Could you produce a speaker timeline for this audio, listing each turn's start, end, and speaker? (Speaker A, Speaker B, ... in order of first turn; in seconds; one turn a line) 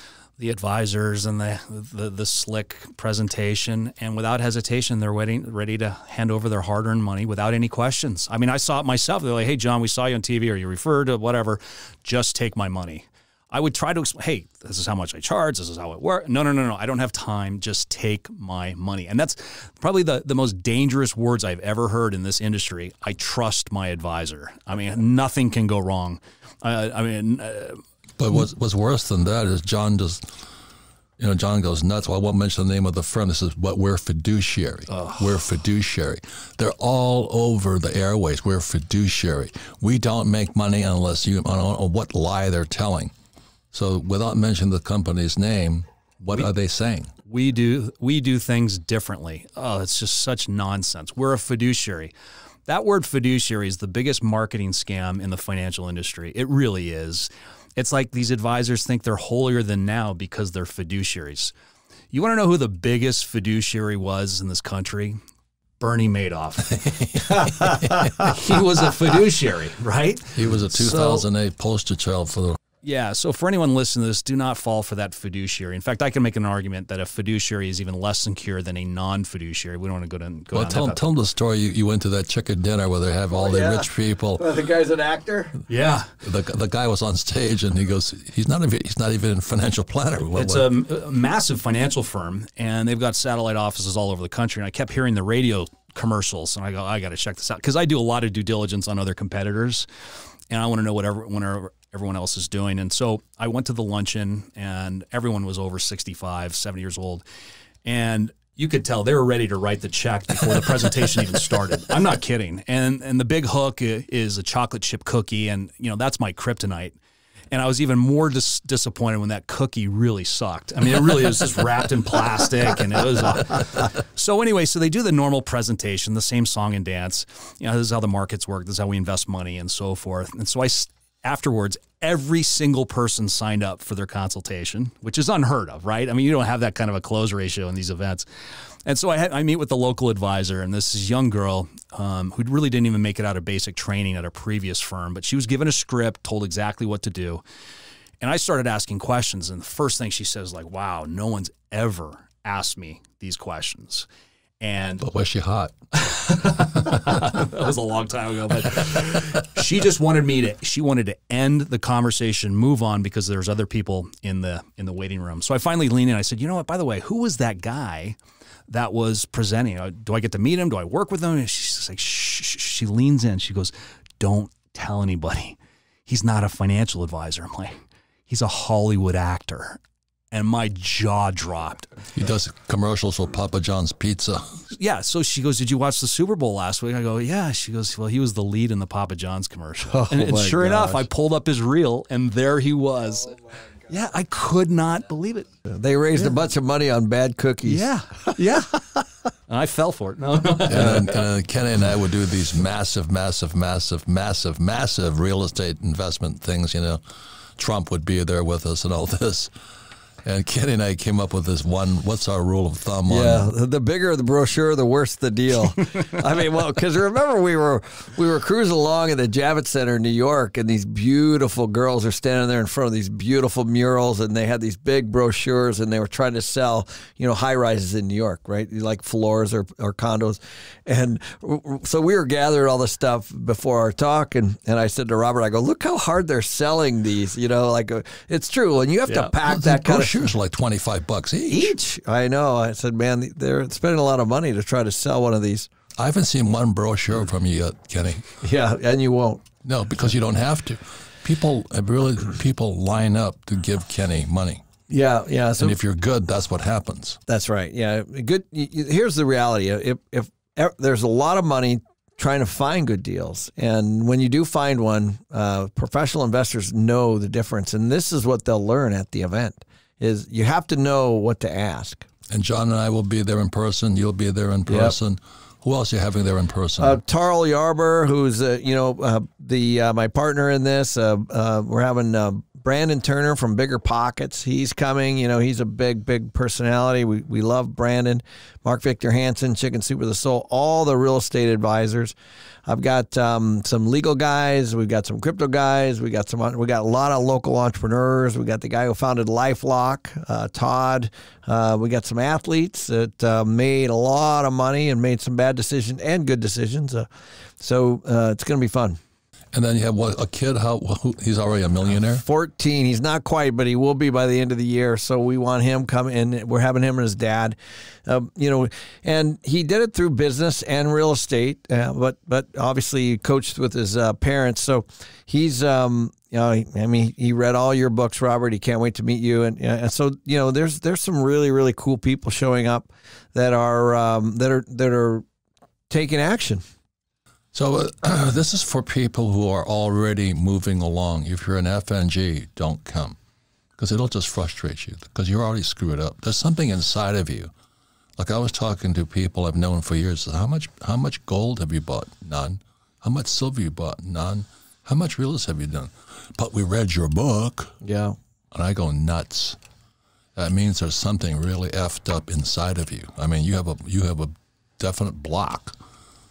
Speaker A: 0.4-27.8
Speaker B: 28.2-30.2
Speaker B: 31.2-43.1
Speaker A: 34.9-35.3
Speaker B: 43.7-47.1
Speaker A: 47.2-52.1
Speaker A: 52.7-61.5
Speaker A: 62.1-65.2
Speaker A: 65.8-71.2
Speaker B: 66.7-68.6
Speaker B: 70.3-72.6
Speaker A: 72.8-81.0
Speaker B: 80.5-84.5
Speaker C: 83.3-85.6
Speaker A: 85.7-86.1
Speaker B: 86.2-90.7
Speaker A: 90.3-99.8
Speaker A: 100.5-107.2
Speaker A: 107.8-116.9
Speaker A: 117.5-138.2
Speaker A: 138.8-147.4
Speaker A: 148.2-154.1
Speaker A: 154.6-155.0
Speaker B: 155.0-156.1
Speaker A: 156.0-168.2
Speaker B: 156.7-157.3
Speaker A: 168.7-179.8
Speaker A: 180.3-181.9
Speaker B: 182.1-184.6
Speaker A: 184.7-193.4
Speaker C: 189.8-191.0
Speaker A: 193.9-195.5
Speaker C: 195.7-197.9
Speaker A: 197.6-198.8
Speaker A: 199.5-201.2
Speaker B: 200.7-207.0
Speaker B: 207.6-209.5
Speaker B: 210.2-213.5
Speaker C: 213.1-240.3
Speaker B: 239.3-241.7
Speaker C: 241.5-245.7
Speaker B: 246.0-248.4
Speaker C: 248.4-249.4
Speaker B: 249.6-254.6
Speaker C: 254.9-255.8
Speaker B: 255.6-257.2
Speaker C: 257.3-272.1
Speaker B: 272.3-277.0
Speaker C: 274.7-274.9
Speaker C: 276.8-292.1
Speaker C: 292.7-307.1
Speaker C: 307.6-309.0
Speaker B: 309.5-312.2
Speaker C: 312.1-335.2
Speaker C: 335.9-336.6
Speaker B: 337.5-343.2
Speaker B: 343.8-347.5
Speaker B: 348.2-357.7
Speaker C: 357.8-358.1
Speaker B: 358.5-359.6
Speaker B: 360.4-365.8